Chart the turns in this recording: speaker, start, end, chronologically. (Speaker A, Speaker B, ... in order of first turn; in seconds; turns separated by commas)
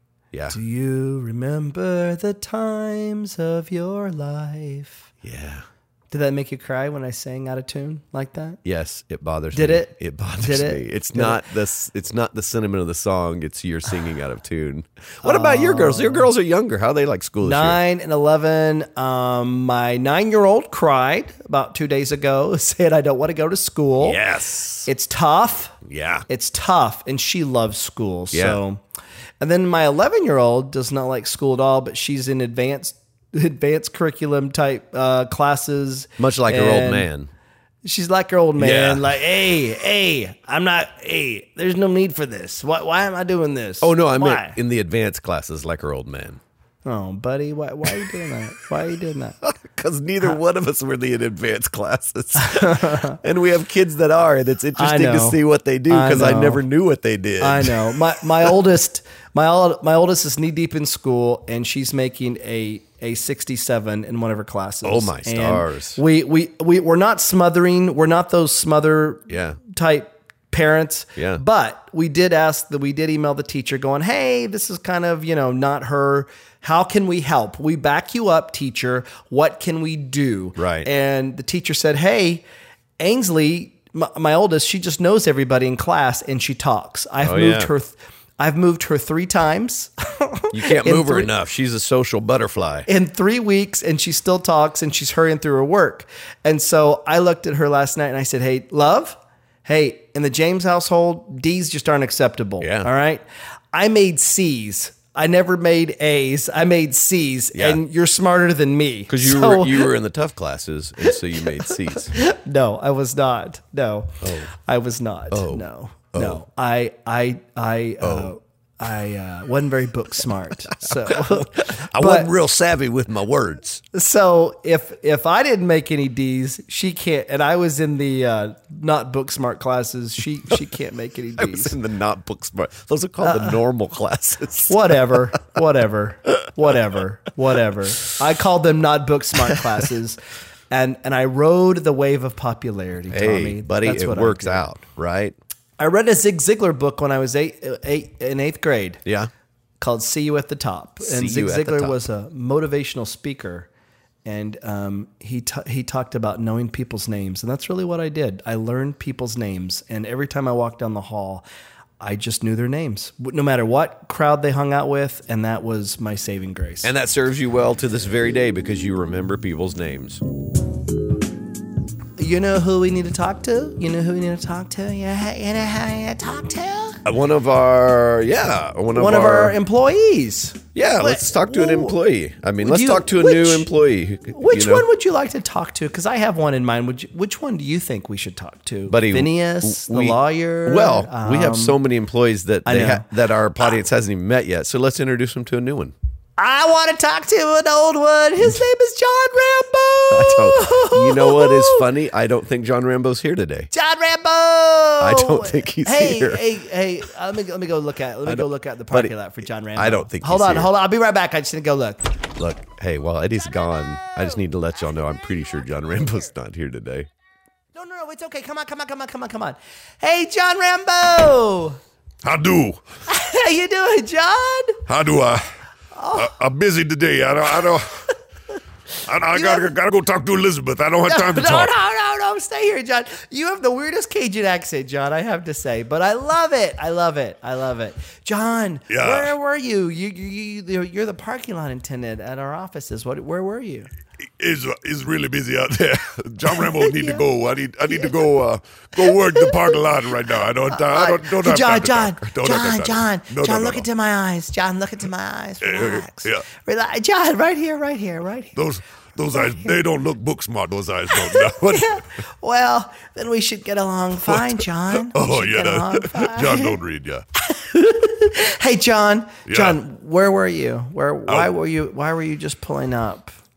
Speaker A: 0.3-0.6, Speaker B: 0.5-5.1, Speaker A: 5.2-5.6, Speaker B: 6.1-8.6, Speaker A: 8.6-17.8, Speaker B: 9.5-11.4, Speaker B: 15.2-16.3, Speaker B: 17.4-24.2, Speaker A: 24.0-24.9, Speaker B: 24.9-25.8, Speaker A: 25.8-26.3, Speaker B: 26.3-28.8, Speaker A: 28.3-28.6, Speaker B: 29.4-37.1, Speaker A: 36.2-37.3, Speaker B: 37.8-44.6, Speaker A: 38.6-39.1, Speaker A: 43.8-46.4, Speaker B: 46.8-49.4, Speaker A: 49.4-58.0, Speaker B: 52.4-53.2, Speaker B: 54.8-56.6, Speaker B: 57.4-82.4, Speaker A: 64.8-66.0, Speaker A: 69.3-69.6, Speaker A: 71.2-71.4, Speaker A: 80.5-80.9, Speaker B: 83.0-91.3, Speaker A: 87.2-87.7, Speaker A: 90.5-92.9, Speaker B: 92.9-109.9, Speaker A: 102.6-102.9, Speaker A: 107.5-107.8, Speaker A: 109.1-112.1, Speaker B: 111.7-122.3, Speaker A: 114.2-114.5, Speaker A: 115.3-116.4, Speaker A: 118.0-118.3, Speaker A: 120.7-123.8, Speaker B: 123.9-131.7, Speaker A: 131.4-135.3, Speaker B: 133.2-133.6, Speaker B: 134.7-144.6, Speaker A: 143.1-145.3, Speaker B: 145.8-149.0, Speaker A: 149.0-149.3, Speaker B: 149.8-153.7, Speaker A: 151.0-152.0, Speaker B: 154.2-161.4, Speaker B: 162.0-166.9, Speaker A: 166.8-170.2, Speaker B: 172.2-177.0, Speaker A: 177.0-179.6, Speaker B: 178.9-182.0, Speaker A: 180.7-184.8, Speaker B: 182.6-183.7, Speaker B: 184.3-191.8, Speaker A: 188.9-195.9, Speaker B: 192.7-193.1, Speaker B: 196.4-201.9, Speaker A: 200.1-203.7, Speaker B: 203.7-212.1, Speaker A: 205.0-206.4, Speaker A: 208.2-209.1, Speaker A: 209.7-210.7, Speaker A: 212.3-217.1, Speaker B: 213.8-214.4, Speaker B: 217.7-221.8, Speaker C: 222.2-222.8, Speaker B: 223.1-224.8, Speaker C: 224.9-225.5, Speaker B: 225.9-226.3, Speaker C: 226.2-228.1, Speaker C: 229.0-231.7, Speaker B: 229.3-229.7, Speaker B: 231.1-243.9, Speaker C: 238.9-239.3, Speaker C: 244.2-253.8, Speaker B: 246.7-247.2, Speaker B: 249.0-249.8, Speaker B: 250.7-258.6, Speaker C: 255.6-256.4, Speaker C: 258.5-262.0, Speaker B: 259.3-259.8, Speaker B: 261.1-266.8, Speaker C: 264.2-267.2, Speaker B: 267.4-273.3, Speaker C: 269.5-269.8